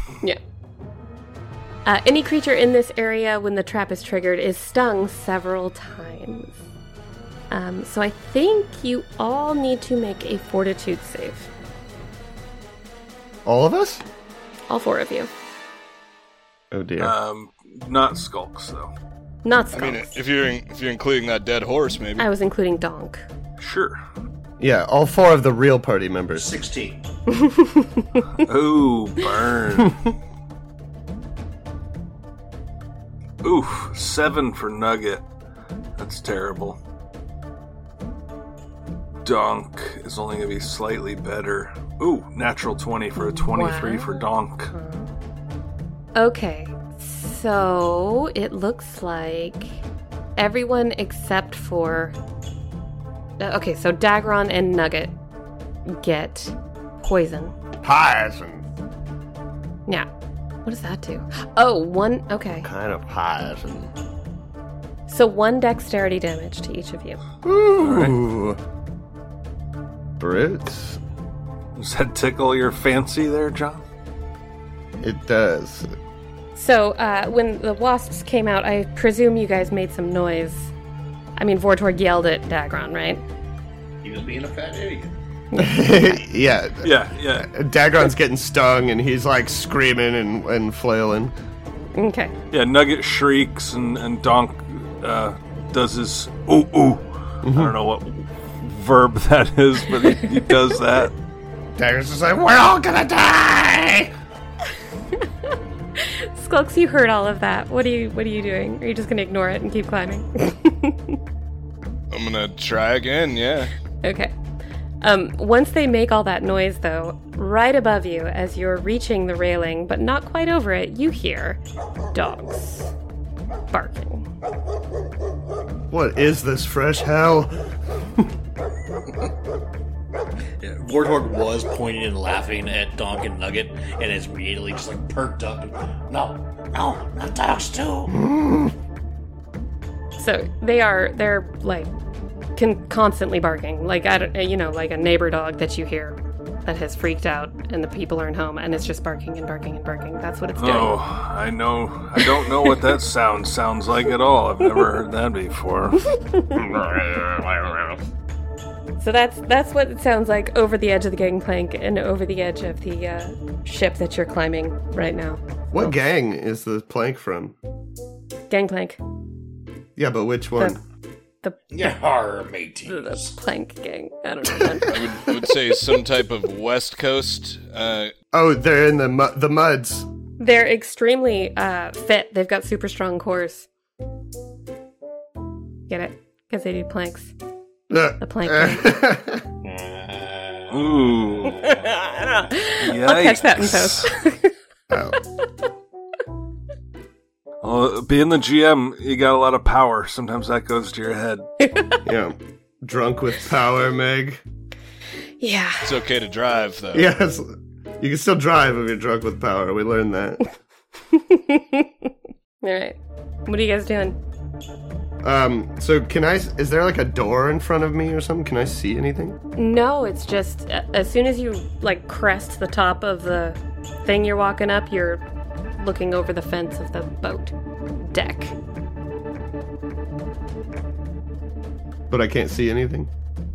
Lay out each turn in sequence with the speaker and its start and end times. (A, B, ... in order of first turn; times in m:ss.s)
0:01.8-0:06.6 A
0:07.5-0:11.5 A
0:13.4-0:14.0 B
0:14.7-0:15.3 A
0:16.7-0:17.1 B
0:17.0-0:18.9 C
0:19.4-0:20.1 A
0:19.7-0:22.3 D
0:22.2-0:23.2 A
0:23.6-0:24.0 C
0:24.6-0:26.5 B
0:26.4-0:27.1 E
0:27.3-0:28.2 A
0:28.4-0:30.0 C
0:33.4-0:35.2 C
0:36.0-0:36.8 C
0:39.2-0:44.7 C
0:43.2-0:45.1 A
0:46.1-0:49.8 A
0:50.4-0:52.1 A
0:53.4-0:55.1 A
0:55.8-0:57.5 A
0:57.8-0:58.7 B
1:00.6-1:02.7 A
1:02.6-1:03.9 B
1:05.1-1:07.2 A
1:07.4-1:08.6 B
1:07.8-1:08.2 C
1:10.2-1:11.0 B
1:11.8-1:13.8 C
1:15.0-1:15.9 B
1:16.5-1:20.7 A
1:21.4-1:23.2 A
1:24.0-1:25.1 E
1:25.5-1:26.2 A
1:25.6-1:31.3 B
1:26.8-1:27.5 C
1:31.9-1:32.3 A
1:32.5-1:41.1 C
1:37.4-1:37.7 B
1:41.8-1:44.1 B
1:46.0-1:51.2 A
1:52.1-1:53.7 D
1:54.0-1:54.3 A
1:55.0-2:01.6 A
2:02.1-2:02.9 A
2:03.7-2:04.3 A
2:05.9-2:08.3 B
2:10.6-2:18.2 E
2:18.1-2:18.7 B
2:20.2-2:21.9 A
2:22.6-2:31.0 A
2:30.6-2:36.1 C
2:32.2-2:32.7 A
2:36.1-2:36.6 A
2:36.5-2:38.0 B
2:39.0-2:45.9 A
2:45.7-2:47.5 B
2:48.5-2:49.0 A
2:50.0-2:50.8 B
2:51.7-2:53.3 E
2:52.9-2:55.2 A
2:54.9-2:58.1 D
2:58.3-3:00.1 B
3:00.4-3:03.7 A
3:05.9-3:07.3 A
3:07.9-3:09.4 B
3:08.2-3:09.0 A
3:09.6-3:11.8 E
3:10.7-3:11.6 C
3:11.6-3:14.5 A
3:12.8-3:14.1 C
3:14.9-3:15.2 B
3:17.6-3:21.5 C
3:21.6-3:22.0 A
3:22.0-3:24.4 B
3:25.4-3:25.9 A
3:25.8-3:27.1 D
3:26.9-3:30.4 B
3:31.1-3:32.1 A
3:32.6-3:34.2 A
3:35.2-3:39.4 B
3:39.6-3:45.2 A
3:45.8-3:48.5 A
3:52.1-3:53.1 B